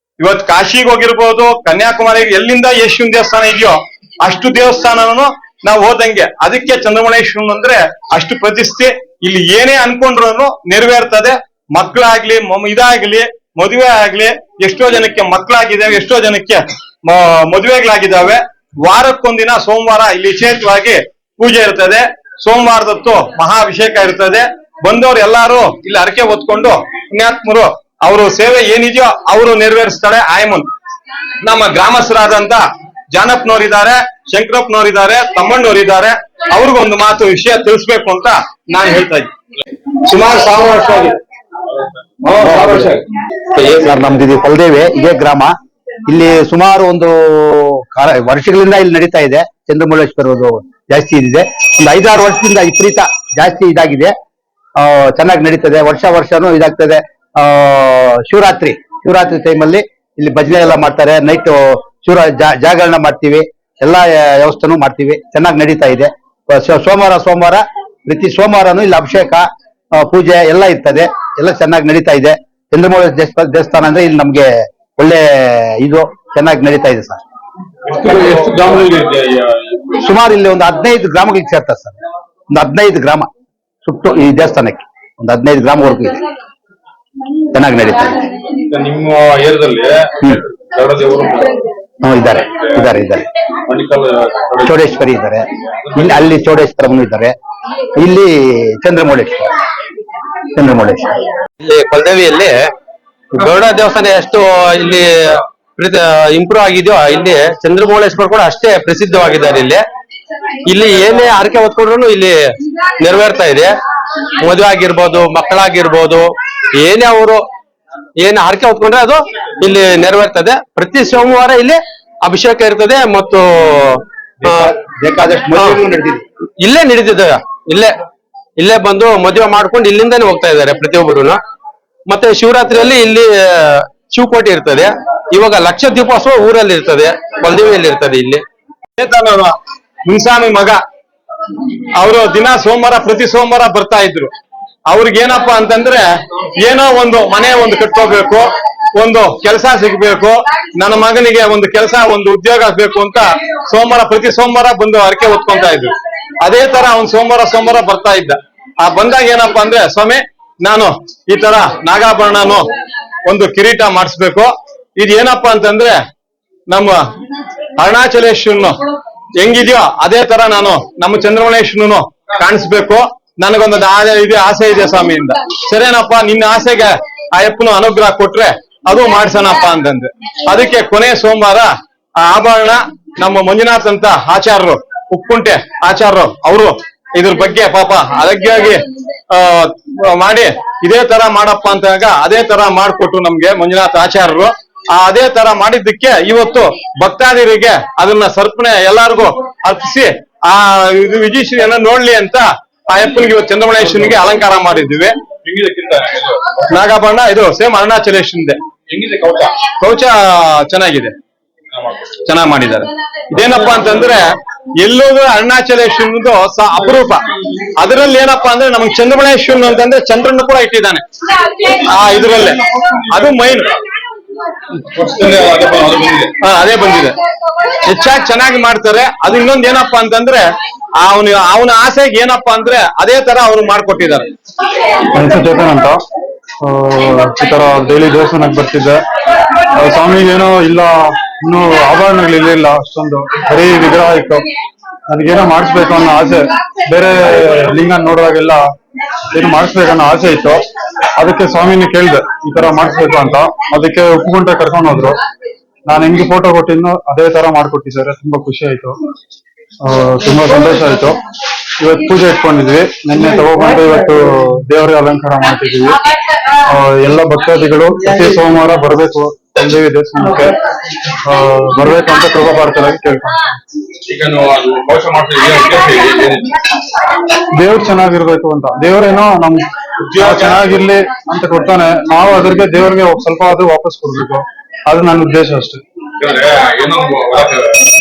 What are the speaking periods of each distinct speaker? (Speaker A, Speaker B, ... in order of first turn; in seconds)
Speaker A: 0.2-30.7, 31.4-32.6, 33.1-39.3, 40.0-41.2, 42.3-42.7, 139.0-140.8, 141.9-144.3, 144.9-162.7, 163.2-166.0, 166.7-167.0, 167.8-168.8, 169.4-181.7, 182.2-205.2, 206.7-208.6, 209.7-211.1, 212.2-214.2, 214.8-217.2, 217.8-223.7, 226.4-227.2, 227.8-230.4, 231.0-234.3
Speaker B: 42.4-43.0, 43.7-45.5, 46.1-54.1, 54.8-77.2, 80.0-82.0, 82.5-83.3, 83.8-86.2, 87.5-88.4, 92.0-93.3, 94.7-97.3, 98.0-99.5, 100.5-101.3, 124.4-126.2
Speaker C: 42.5-42.9, 77.8-80.0, 88.6-91.7, 93.7-94.8, 95.9-96.2, 205.4-206.5, 208.9-209.5, 224.9-226.3, 274.1-276.5, 280.1-280.6, 286.2-287.8
Speaker D: 43.6-44.1, 101.7-102.7, 103.3-109.8, 110.7-113.7, 114.4-117.4, 118.2-124.7, 126.6-128.0, 128.6-131.4, 132.1-138.4
Speaker E: 235.1-236.0, 236.6-239.0, 239.7-244.5, 245.1-248.7, 249.3-250.7, 251.2-255.2, 255.9-259.0, 259.8-261.2, 261.8-266.0, 266.6-270.6, 271.2-273.5, 277.6-285.8